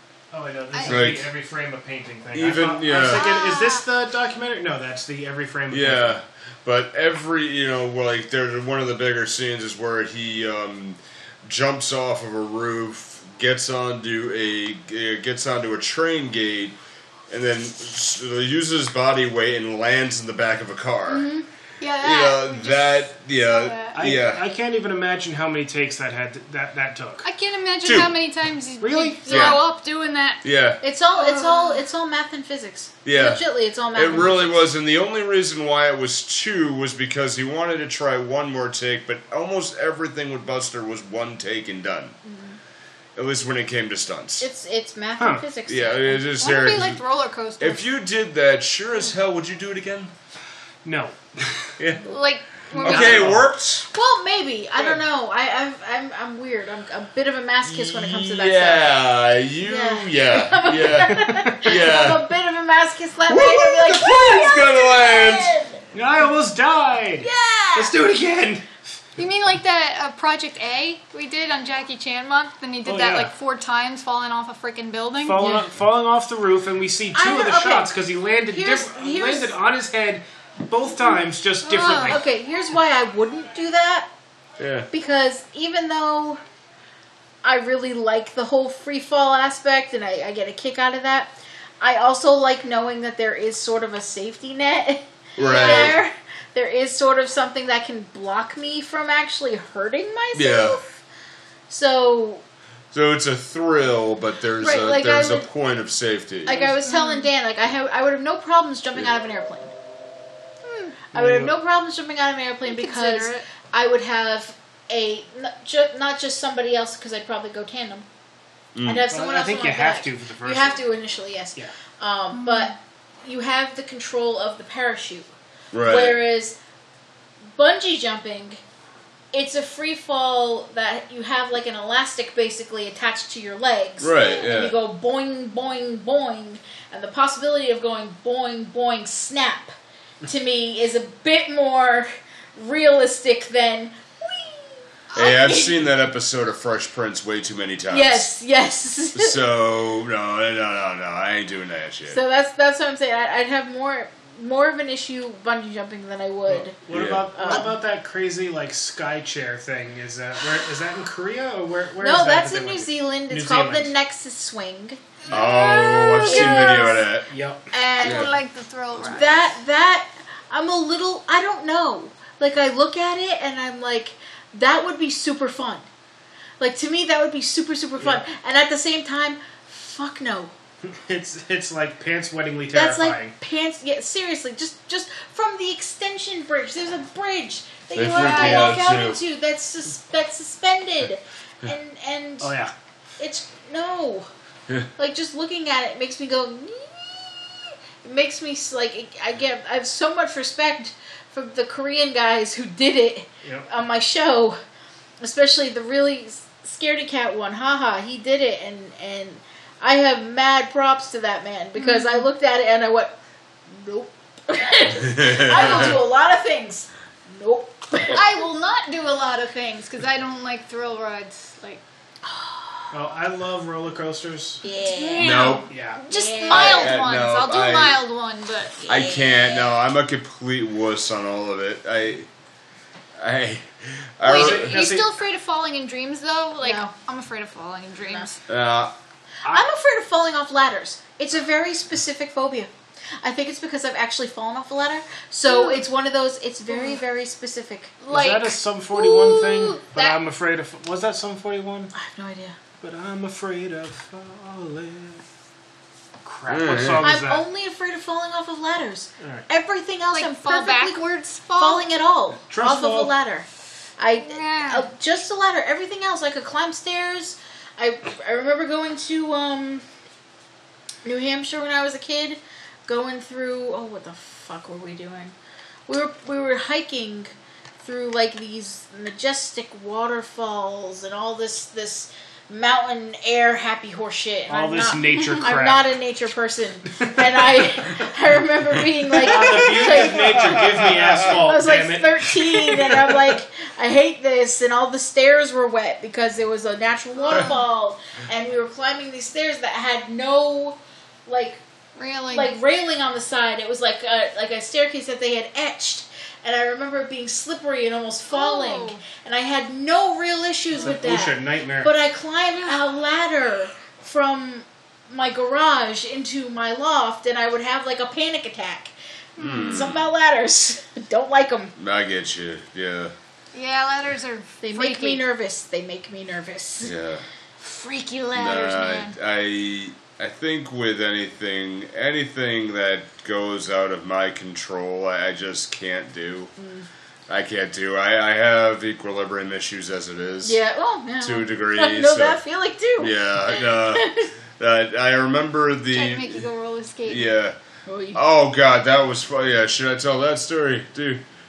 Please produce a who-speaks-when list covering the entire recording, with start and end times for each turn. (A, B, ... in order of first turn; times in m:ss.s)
0:00.3-0:06.2 A
0:00.7-0:01.0 B
0:00.9-0:01.3 C
0:02.3-0:03.3 C
0:02.9-0:03.8 B
0:05.7-0:16.8 C
0:17.3-0:21.3 C
0:21.1-0:21.4 D
0:21.8-0:24.0 B
0:22.0-0:24.4 C
0:23.9-0:27.3 A
0:27.2-0:30.4 B
0:27.8-0:28.1 C
0:28.8-0:29.2 A
0:29.2-0:29.6 D
0:29.3-0:29.6 C
0:30.4-0:30.8 C
0:30.8-0:34.6 D
0:31.1-0:31.8 B
0:33.0-0:42.2 C
0:42.2-0:42.6 D
0:43.2-0:44.5 C
0:44.4-0:46.2 D
0:45.2-0:45.4 A
0:45.7-0:47.0 C
0:46.4-0:47.8 B
0:47.6-0:50.1 C
0:50.8-0:51.8 A
0:51.8-0:52.1 C
0:52.0-0:53.3 B
0:52.7-0:53.5 A
0:52.8-0:53.9 C
0:53.9-0:58.9 D
0:54.8-0:55.0 A
0:57.6-1:02.3 C
0:59.6-1:05.8 D
1:01.0-1:01.6 A
1:03.2-1:05.5 C
1:05.9-1:08.7 A
1:07.2-1:07.9 D
1:09.2-1:15.5 B
1:12.8-1:13.3 A
1:15.2-1:22.2 A
1:17.1-1:17.9 D
1:18.5-1:19.5 D
1:21.6-1:22.2 B
1:21.9-1:24.1 D
1:24.6-1:24.9 C
1:24.9-1:26.4 D
1:27.4-1:41.0 D
1:35.4-1:36.0 C
1:35.4-1:35.9 B
1:40.3-1:40.8 C
1:41.7-1:42.4 D
1:42.9-1:46.6 C
1:44.6-1:45.5 D
1:46.4-1:49.7 D
1:46.8-1:47.3 B
1:50.6-1:51.0 B
1:51.1-1:51.5 A
1:51.1-1:58.0 D
1:52.6-1:53.4 B
1:58.7-1:59.0 C
1:58.8-2:05.3 D
1:59.1-2:00.8 A
2:02.3-2:02.7 B
2:05.7-2:06.2 C
2:05.8-2:06.6 D
2:07.5-2:08.6 D
2:09.3-2:25.7 D
2:14.0-2:14.7 C
2:25.1-2:25.4 B
2:25.1-2:28.3 C
2:27.9-2:29.4 D
2:29.1-2:32.2 C
2:32.1-2:36.8 D
2:36.5-2:43.9 A
2:36.9-2:37.2 C
2:37.4-2:37.7 D
2:42.0-2:45.0 D
2:45.2-2:46.9 B
2:45.3-2:47.2 C
2:46.2-2:47.1 D
2:47.3-2:47.6 A
2:47.7-2:48.3 D
2:48.0-2:49.5 B
2:48.0-2:48.3 C
2:49.0-2:55.8 D
2:56.6-3:00.5 D
2:58.0-2:58.2 A
3:00.8-3:03.3 A
3:02.7-3:12.5 D
3:07.9-3:09.2 C
3:08.2-3:08.7 B
3:12.4-3:12.7 A
3:13.2-3:14.3 D
3:15.0-3:24.6 D
3:25.2-3:33.2 D
3:31.8-3:32.3 B
3:33.7-3:38.2 D
3:35.0-3:36.0 C
3:35.5-3:36.0 B
3:38.1-3:41.8 B
3:42.2-3:42.9 D
3:42.9-3:44.6 A
3:44.6-3:47.0 D
3:44.7-3:48.8 B
3:45.2-3:45.7 C
3:45.7-3:46.0 A
3:46.5-3:48.0 C
3:48.8-3:49.7 D
3:48.9-3:52.3 C
3:53.2-3:54.8 C
3:54.2-3:58.4 B
3:54.3-3:55.1 A
3:56.6-3:56.9 D
3:58.5-3:58.9 C
3:59.4-4:02.7 D
4:03.2-4:07.9 D
4:05.5-4:05.8 B
4:06.7-4:07.0 B
4:08.0-4:10.2 B
4:08.1-4:11.9 A
4:11.9-4:12.6 D
4:12.8-4:15.2 A
4:16.2-4:17.4 A
4:16.5-4:17.1 C
4:17.0-4:21.0 D
4:19.2-4:19.4 A
4:20.1-4:21.8 B
4:21.6-4:23.4 D
4:22.5-4:23.1 A
4:24.0-4:29.8 D
4:24.2-4:24.8 B
4:31.0-4:35.3 D
4:35.9-4:50.5 D
4:44.5-4:45.9 A
4:47.0-4:47.6 A
4:49.2-4:53.2 A
4:50.2-4:51.2 C
4:51.2-5:01.6 D
4:57.3-4:57.6 B
5:02.0-5:02.6 B
5:02.3-5:21.7 D
5:08.3-5:09.0 B
5:10.8-5:11.9 A
5:12.6-5:12.8 B
5:19.4-5:19.8 B
5:19.4-5:20.1 C
5:21.8-5:23.1 C
5:23.5-5:25.2 B
5:24.6-5:26.9 D
5:26.8-5:27.2 C
5:27.6-5:29.1 B
5:28.3-5:36.5 C
5:36.6-5:36.9 D
5:37.3-5:40.6 C
5:40.4-5:44.3 D
5:41.2-5:42.4 C
5:43.0-5:46.4 C
5:45.9-5:47.3 B
5:47.0-5:47.6 C
5:47.9-5:48.2 D
5:48.1-5:51.2 C